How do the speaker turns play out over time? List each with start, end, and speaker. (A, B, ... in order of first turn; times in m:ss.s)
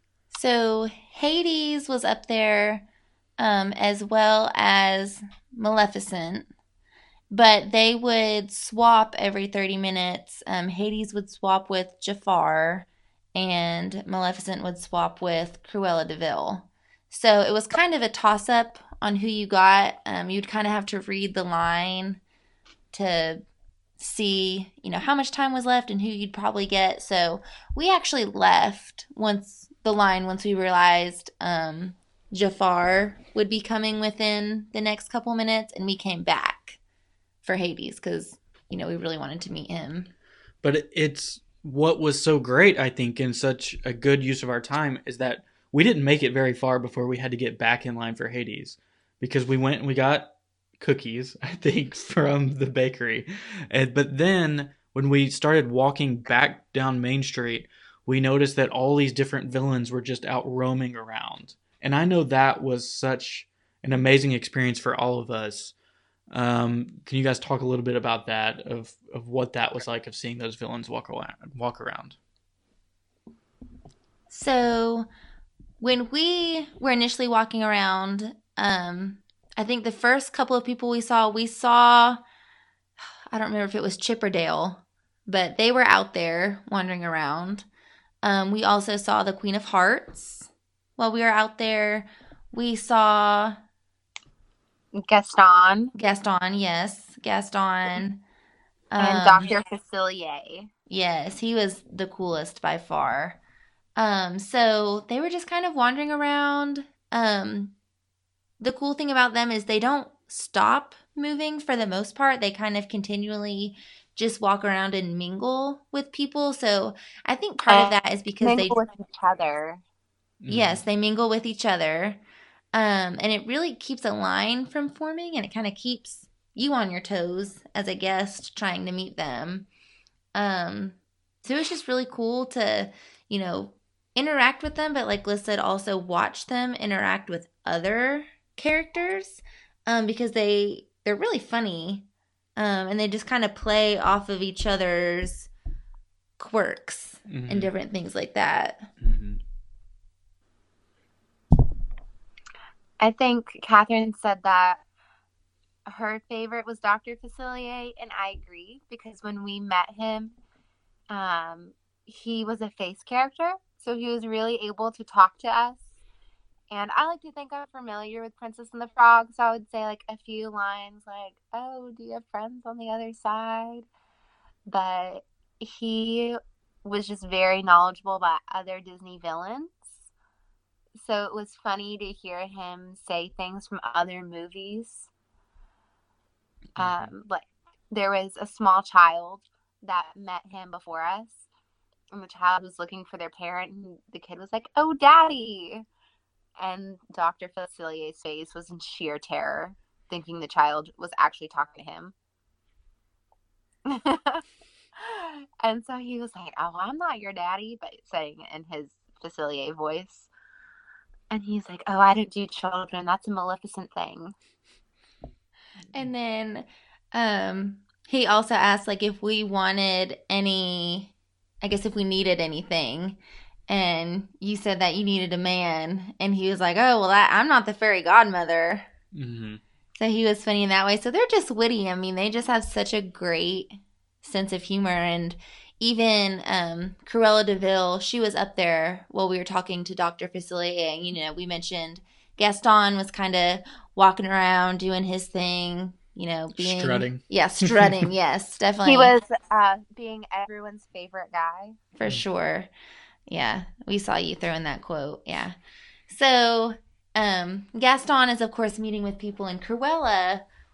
0:00.3-0:02.9 A
0:03.4-0:06.5 A
0:07.3-0:22.2 A
0:22.9-0:23.4 A
0:24.0-0:36.8 A
0:37.4-0:40.1 A
0:40.6-1:05.7 B
1:06.3-1:12.2 B
1:14.3-1:15.1 A
1:15.8-1:22.2 A
1:23.3-1:27.7 A
1:28.2-1:33.6 A
1:34.9-1:35.9 C
1:35.9-1:38.2 A
1:38.9-1:39.6 A
1:39.0-1:40.7 C
1:40.9-1:43.4 A
1:44.0-1:47.7 A
1:48.6-1:58.8 A
1:57.7-1:59.8 C
2:00.4-2:00.8 B
2:00.5-2:02.2 A
2:02.7-2:09.7 A
2:10.4-2:22.1 A
2:22.6-2:25.5 A
2:26.4-2:28.9 A
2:27.3-2:27.7 B
2:29.0-2:29.4 B
2:33.0-2:34.8 C
2:35.9-2:40.4 C
2:41.1-2:45.9 C
2:46.7-2:53.9 C
2:54.7-3:00.1 C
3:01.0-3:05.1 C
3:06.8-3:11.5 C
3:06.8-3:07.1 B
3:12.1-3:15.8 C
3:16.6-3:22.1 C
3:23.8-3:24.4 C
3:25.0-3:30.3 C
3:31.3-3:34.3 C
3:35.9-3:48.9 A
3:49.1-3:49.6 B
3:50.0-4:09.1 A
4:06.6-4:08.1 B
4:08.8-4:11.8 C
4:12.0-4:12.7 A
4:13.3-4:15.6 A
4:16.1-4:20.4 A